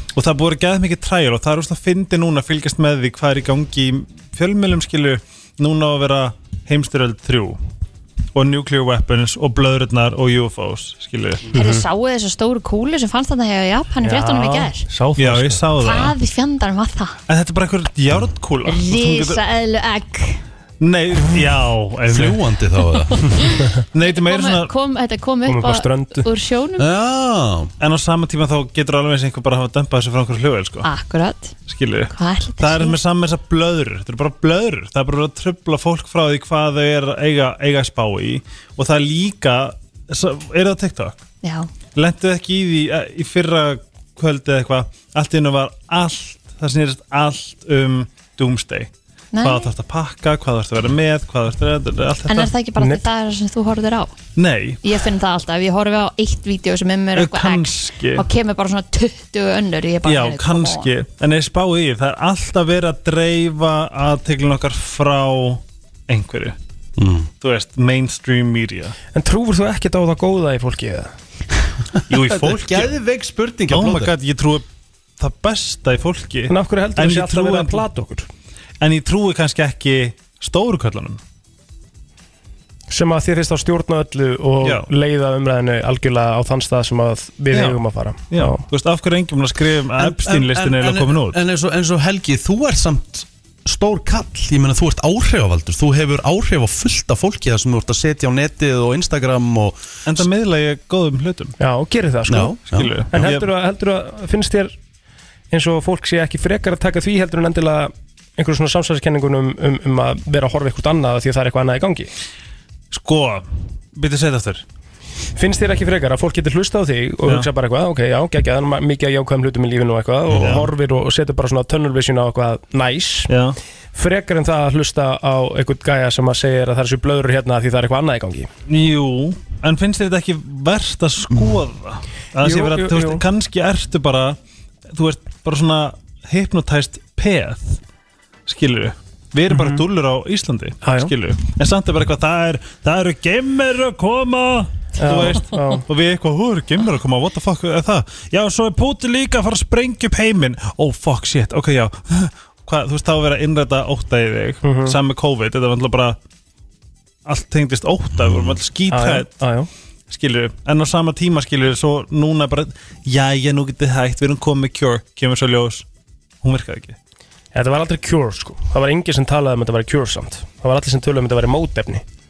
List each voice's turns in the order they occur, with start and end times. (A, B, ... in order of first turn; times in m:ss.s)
0:00.1-0:07.6 A
0:08.3-0:11.5 A
0:11.5-0:14.8 B
0:11.5-0:11.8 C
0:14.0-0:15.6 C
0:15.2-0:16.1 A
0:15.8-0:17.2 B
0:17.3-0:19.4 A
0:18.6-0:20.4 B
0:20.8-0:22.4 A
0:22.1-0:23.3 D
0:23.2-0:26.8 B
0:23.9-0:24.7 A
0:25.4-0:26.3 C
0:26.8-0:27.7 D
0:27.8-0:30.9 A
0:30.8-0:31.5 B
0:31.7-0:41.2 A
0:32.1-0:33.0 B
0:41.4-0:41.7 B
0:41.9-0:52.5 A
0:49.3-0:49.7 B
0:52.3-0:54.2 B
0:54.4-0:54.8 A
0:54.8-1:00.9 B
0:57.1-0:58.3 A
1:00.0-1:06.6 A
1:07.0-1:07.3 D
1:07.4-1:08.9 A
1:09.1-1:11.1 C
1:12.1-1:12.9 A
1:12.1-1:14.1 D
1:13.7-1:14.6 A
1:15.2-1:17.8 A
1:16.5-1:18.3 C
1:18.8-1:21.2 A
1:22.9-1:28.6 C
1:24.6-1:24.9 A
1:27.5-1:31.4 A
1:30.0-1:40.3 D
1:40.0-1:41.5 A
1:41.6-1:44.7 C
1:42.3-1:42.9 D
1:42.7-1:43.4 A
1:45.5-1:52.1 C
1:52.9-1:54.6 A
1:55.4-2:03.3 C
2:00.3-2:00.7 A
2:03.3-2:03.6 A
2:03.9-2:08.5 C
2:08.7-2:14.4 A
2:12.4-2:13.2 C
2:14.9-2:17.8 A
2:18.4-2:36.2 A
2:19.5-2:19.8 C
2:20.8-2:21.1 C
2:25.0-2:25.8 C
2:34.6-2:35.0 C
2:37.2-2:39.3 A
2:38.9-2:39.7 C
2:40.1-2:45.8 A
2:46.4-2:47.0 A
2:47.5-2:52.0 C